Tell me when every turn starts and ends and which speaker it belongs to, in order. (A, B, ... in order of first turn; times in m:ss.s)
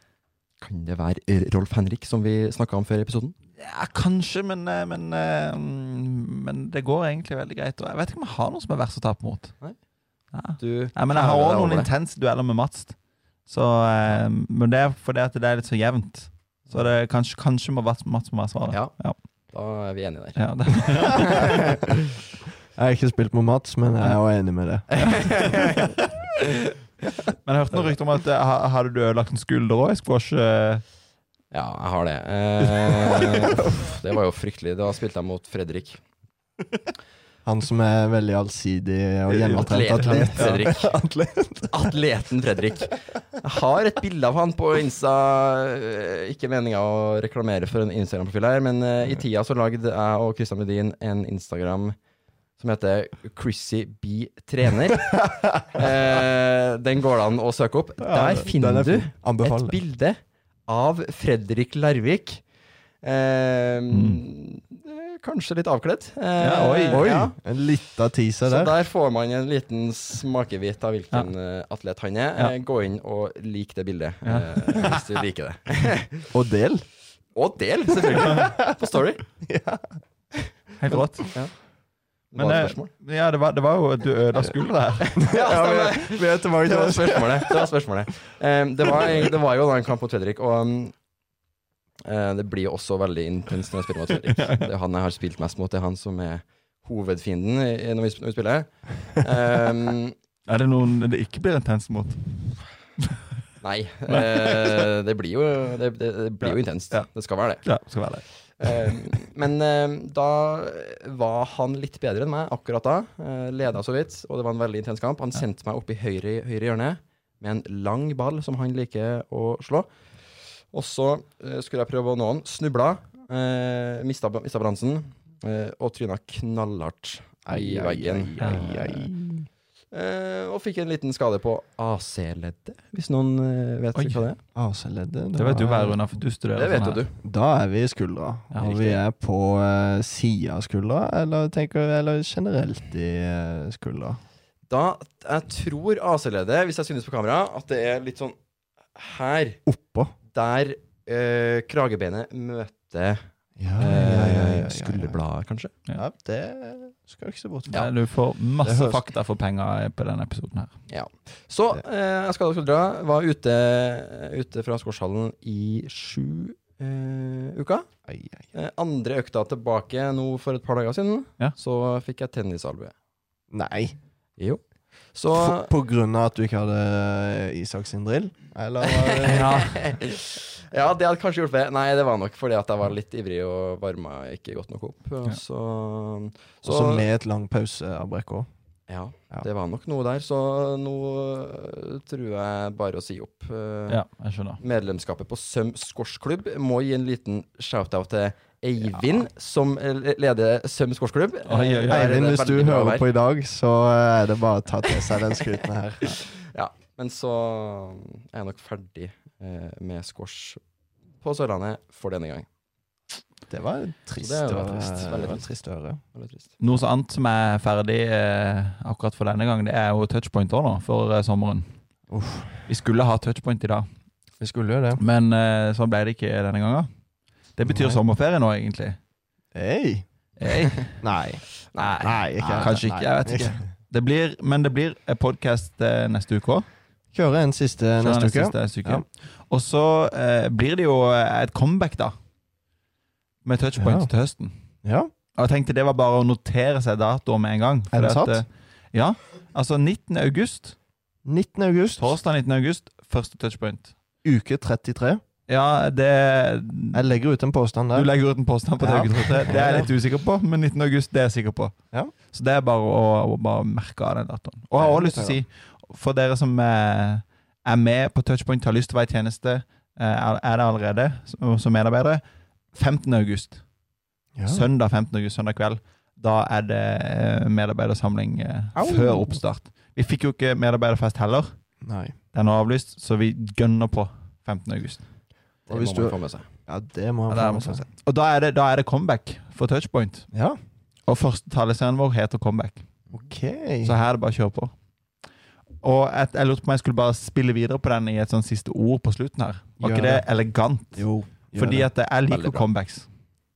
0:00.6-0:03.4 A
0:03.6-0:09.6 B
0:10.3-0:19.2 B
0:10.5-0:11.9 A
0:18.7-0:21.9 A
0:20.4-0:21.6 B
0:22.8-0:25.6 C
0:24.9-0:25.9 A
0:27.4-0:30.8 B
0:31.5-0:36.0 A
0:37.4-0:42.0 C
0:39.3-0:40.7 B
0:39.5-0:41.0 A
0:41.7-0:52.0 A
0:52.6-1:02.4 A
0:55.2-0:55.6 C
0:58.0-0:59.8 C
1:03.0-1:07.4 A
1:03.9-1:04.2 B
1:06.4-1:07.1 B
1:06.9-1:08.8 C
1:08.4-1:16.3 A
1:14.2-1:15.2 B
1:16.3-1:16.9 C
1:17.4-1:19.3 A
1:17.9-1:18.8 C
1:19.4-1:20.0 C
1:20.8-1:21.4 B
1:20.9-1:21.4 C
1:21.3-1:21.6 A
1:22.3-1:22.9 A
1:22.4-1:25.2 B
1:25.1-1:31.0 A
1:25.2-1:27.7 C
1:32.1-1:40.1 A
1:34.3-1:34.6 B
1:40.5-1:42.3 B
1:43.6-1:47.8 A
1:44.1-1:44.8 B
1:46.4-1:47.1 B
1:47.6-1:49.0 B
1:48.6-1:59.9 A
2:00.7-2:09.1 A
2:07.5-2:09.5 C
2:08.4-2:08.7 B
2:09.9-2:14.4 A
2:14.0-2:14.2 B
2:14.6-2:16.0 C
2:15.4-2:17.0 B
2:16.6-2:17.1 A
2:17.2-2:24.2 C
2:18.5-2:19.0 B
2:24.7-2:28.4 A
2:28.9-2:29.6 A
2:29.7-2:30.1 C
2:30.3-2:35.7 A
2:33.6-2:35.2 C
2:36.0-2:37.8 C
2:37.7-2:40.7 B
2:38.6-2:39.0 C
2:40.9-2:47.9 A
2:48.1-2:48.5 C
2:48.5-2:52.9 A
2:53.5-2:54.0 C
2:55.1-2:55.7 A
2:55.3-2:59.5 C
2:58.8-3:07.0 A
2:59.3-2:59.8 B
3:06.6-3:08.5 C
3:08.9-3:14.0 A
3:13.9-3:14.6 B
3:14.6-3:23.1 A
3:19.0-3:19.2 C
3:21.5-3:22.2 B
3:21.9-3:26.2 C
3:26.1-3:30.6 A
3:31.2-3:32.5 A
3:33.5-3:36.0 C
3:34.2-3:35.6 A
3:36.1-3:36.5 A
3:36.6-3:41.8 B
3:42.1-3:42.6 C
3:42.7-3:43.9 B
3:44.4-3:45.0 C
3:45.0-3:46.9 B
3:47.5-3:49.0 B
3:47.7-3:48.0 C
3:49.5-3:50.1 C
3:50.4-3:51.0 B
3:51.0-3:53.7 C
3:51.7-3:52.7 A
3:51.8-3:56.7 B
3:57.1-3:59.0 C
3:58.0-4:02.2 B
4:03.4-4:04.7 B
4:03.8-4:04.1 C
4:04.8-4:05.1 C
4:05.4-4:10.8 B
4:07.9-4:08.4 C
4:11.2-4:12.1 C
4:12.0-4:14.0 B
4:14.2-4:15.2 C
4:15.5-4:17.0 B
4:16.9-4:18.1 C
4:17.9-4:33.7 B
4:18.8-4:19.9 C
4:24.8-4:25.4 C
4:34.4-4:34.7 C
4:34.5-4:41.6 B
4:38.8-4:39.4 C
4:41.8-4:42.2 C
4:42.3-4:45.1 B
4:45.7-4:46.5 A
4:45.7-4:47.8 C
4:47.3-4:50.3 B
4:50.3-4:50.6 C
4:51.1-4:52.9 B
4:53.1-4:54.0 C
4:53.8-4:54.7 B
4:55.8-5:03.1 B
4:59.8-5:00.3 C
5:00.9-5:01.9 C
5:02.3-5:02.7 A